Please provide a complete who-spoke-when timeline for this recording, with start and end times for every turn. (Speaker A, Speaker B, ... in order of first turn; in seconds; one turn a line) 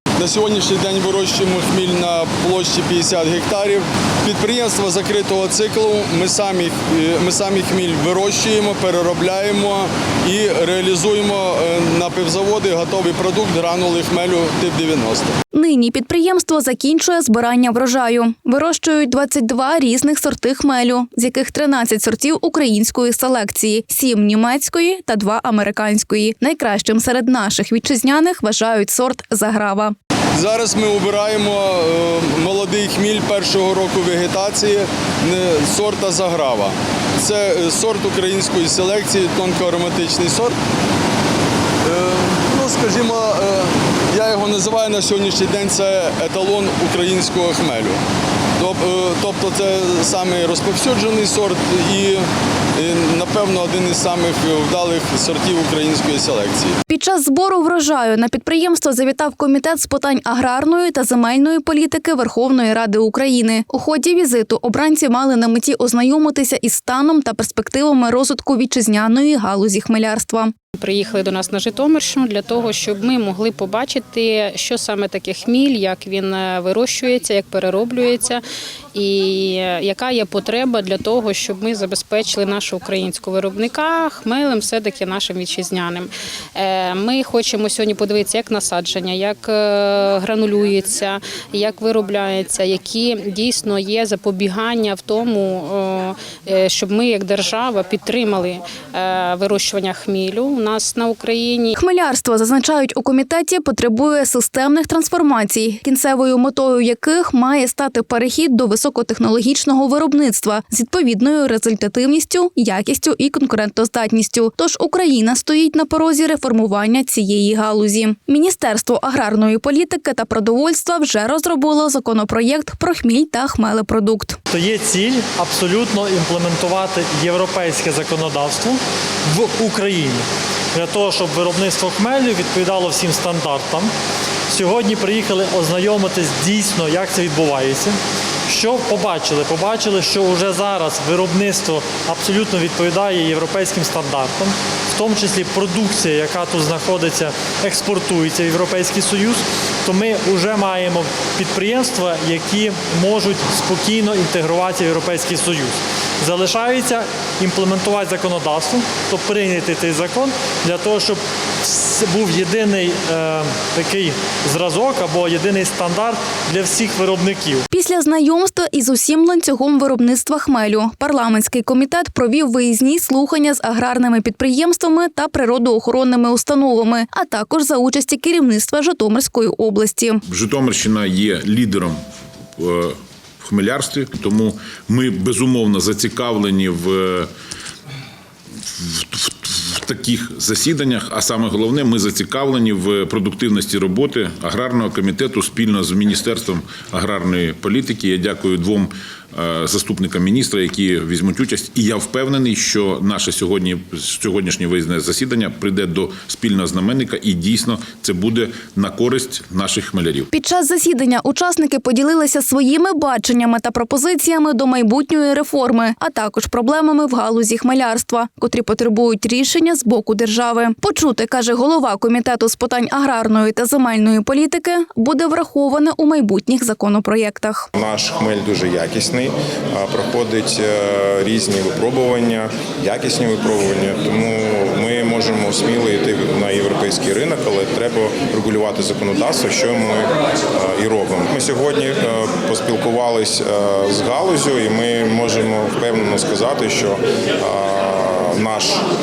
Speaker A: 0.2-15.3
Speaker B: 15.5-29.9
Speaker A: 30.4-40.6
Speaker A: 41.8-48.0
Speaker A: 48.6-52.2
Speaker A: 52.8-56.7
Speaker B: 56.9-70.5
Speaker C: 70.8-101.7
Speaker B: 101.8-124.4
Speaker D: 124.5-133.9
Speaker D: 134.5-167.7
Speaker B: 167.7-180.2
Speaker E: 180.3-182.0
Speaker E: 182.6-187.3
Speaker E: 188.7-210.3
Speaker B: 210.3-227.7
Speaker F: 227.7-248.8